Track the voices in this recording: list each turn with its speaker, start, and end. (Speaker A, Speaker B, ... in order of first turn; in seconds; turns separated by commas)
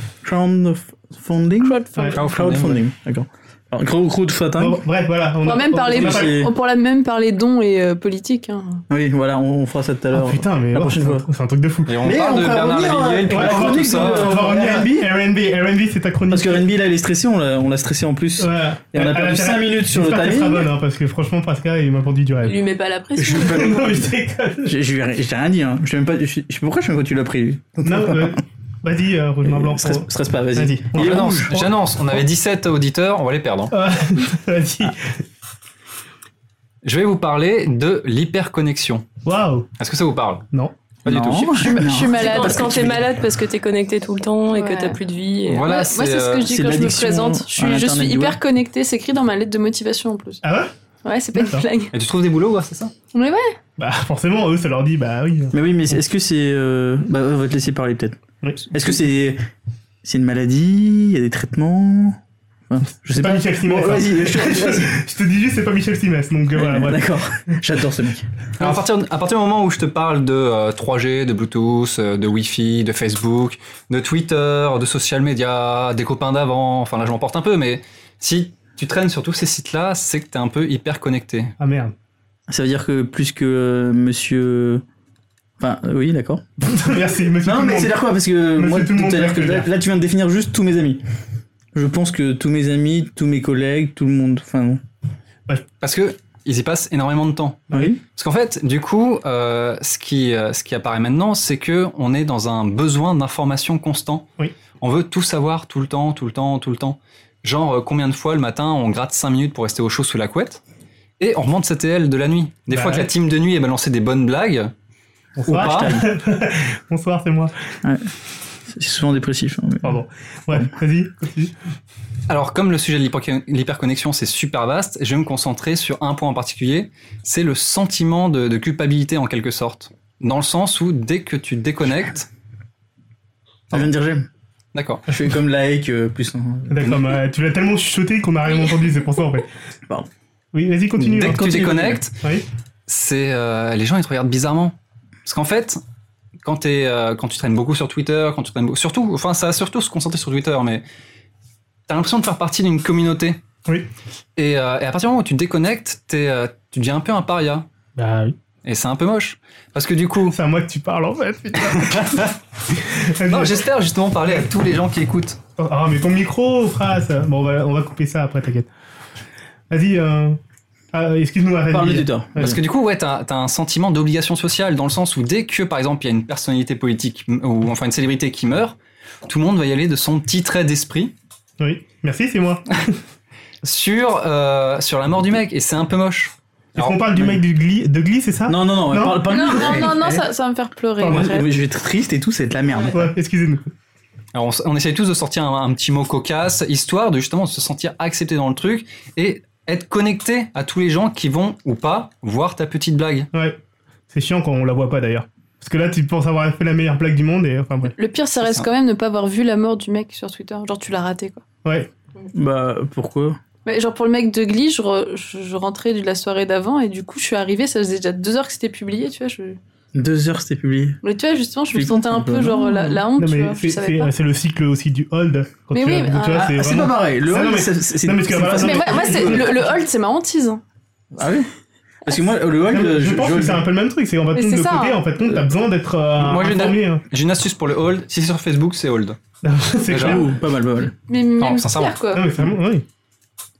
Speaker A: 0.2-4.8, Speaker B: 2.1-2.8, Speaker C: 4.6-6.3, Speaker D: 5.4-8.8, Speaker A: 5.9-6.5, Speaker A: 8.9-11.2, Speaker C: 10.1-12.0, Speaker B: 11.8-14.5, Speaker A: 12.0-15.1, Speaker C: 13.3-16.7, Speaker A: 16.3-20.7, Speaker C: 18.4-22.7, Speaker E: 22.4-24.0, Speaker A: 23.2-24.1, Speaker C: 23.2-24.7, Speaker A: 24.6-28.4, Speaker C: 27.8-31.7, Speaker A: 29.4-31.5, Speaker B: 30.9-33.7, Speaker C: 33.7-35.1, Speaker B: 36.8-39.0, Speaker C: 39.2-39.7, Speaker B: 39.8-40.5, Speaker B: 41.0-41.9, Speaker A: 41.0-43.0, Speaker D: 41.6-42.9, Speaker E: 42.1-45.7, Speaker D: 44.5-45.0, Speaker B: 45.5-46.5, Speaker D: 45.6-50.4, Speaker A: 46.5-48.4, Speaker C: 50.4-50.7, Speaker D: 51.0-51.9, Speaker C: 51.3-51.6, Speaker B: 51.9-52.9, Speaker D: 53.1-53.6, Speaker C: 53.8-55.5, Speaker A: 55.5-58.2, Speaker C: 58.4-58.7, Speaker A: 58.7-59.4, Speaker A: 60.0-62.2, Speaker A: 62.7-64.9, Speaker C: 63.1-67.1, Speaker A: 66.5-68.2, Speaker B: 68.6-81.5, Speaker C: 81.6-81.9, Speaker A: 82.5-84.8, Speaker A: 85.6-86.4, Speaker C: 86.6-87.9, Speaker A: 87.4-91.0, Speaker C: 88.6-89.7, Speaker A: 91.7-94.8, Speaker B: 95.8-104.3, Speaker A: 97.7-98.0, Speaker B: 104.8-110.6, Speaker B: 111.2-114.7, Speaker C: 112.7-113.1, Speaker C: 115.4-117.5, Speaker B: 115.5-116.0, Speaker A: 115.5-116.1, Speaker A: 118.7-120.0, Speaker C: 119.8-121.5, Speaker B: 122.3-132.3, Speaker A: 133.7-134.3, Speaker B: 134.7-135.0, Speaker A: 135.1-137.0, Speaker C: 136.7-139.5, Speaker C: 140.5-142.4, Speaker A: 141.0-142.0, Speaker B: 141.0-142.2, Speaker B: 142.9-144.7, Speaker B: 145.2-145.8, Speaker B: 146.4-150.8, Speaker B: 151.9-153.4, Speaker B: 154.4-157.7, Speaker C: 158.0-158.3, Speaker B: 158.6-160.4, Speaker C: 160.3-162.2, Speaker B: 161.7-162.3, Speaker C: 163.0-163.6, Speaker B: 163.3-165.4, Speaker C: 165.6-168.7, Speaker C: 169.7-170.4, Speaker C: 170.9-172.6, Speaker A: 171.7-172.6, Speaker B: 172.4-181.1, Speaker C: 181.6-183.0, Speaker B: 183.6-187.0, Speaker C: 186.8-190.2, Speaker A: 188.5-190.2, Speaker D: 189.3-191.5, Speaker C: 191.0-191.3, Speaker A: 191.1-193.1, Speaker C: 192.9-193.7, Speaker B: 194.3-203.3, Speaker C: 203.3-203.6, Speaker C: 204.1-207.9, Speaker D: 207.9-211.4, Speaker C: 211.6-211.9, Speaker A: 212.3-213.4, Speaker D: 213.6-219.6, Speaker A: 219.9-221.0, Speaker D: 221.0-224.1, Speaker A: 221.7-223.0, Speaker C: 223.1-229.6, Speaker D: 225.7-226.5, Speaker A: 226.3-229.6, Speaker D: 228.5-230.6, Speaker A: 231.1-231.5, Speaker A: 232.0-233.6, Speaker C: 232.7-237.0, Speaker D: 234.3-235.0, Speaker B: 236.2-239.2, Speaker C: 239.4-240.3, Speaker B: 239.9-240.2, Speaker A: 240.0-240.9, Speaker D: 241.1-242.2, Speaker B: 241.4-241.9, Speaker C: 242.1-242.8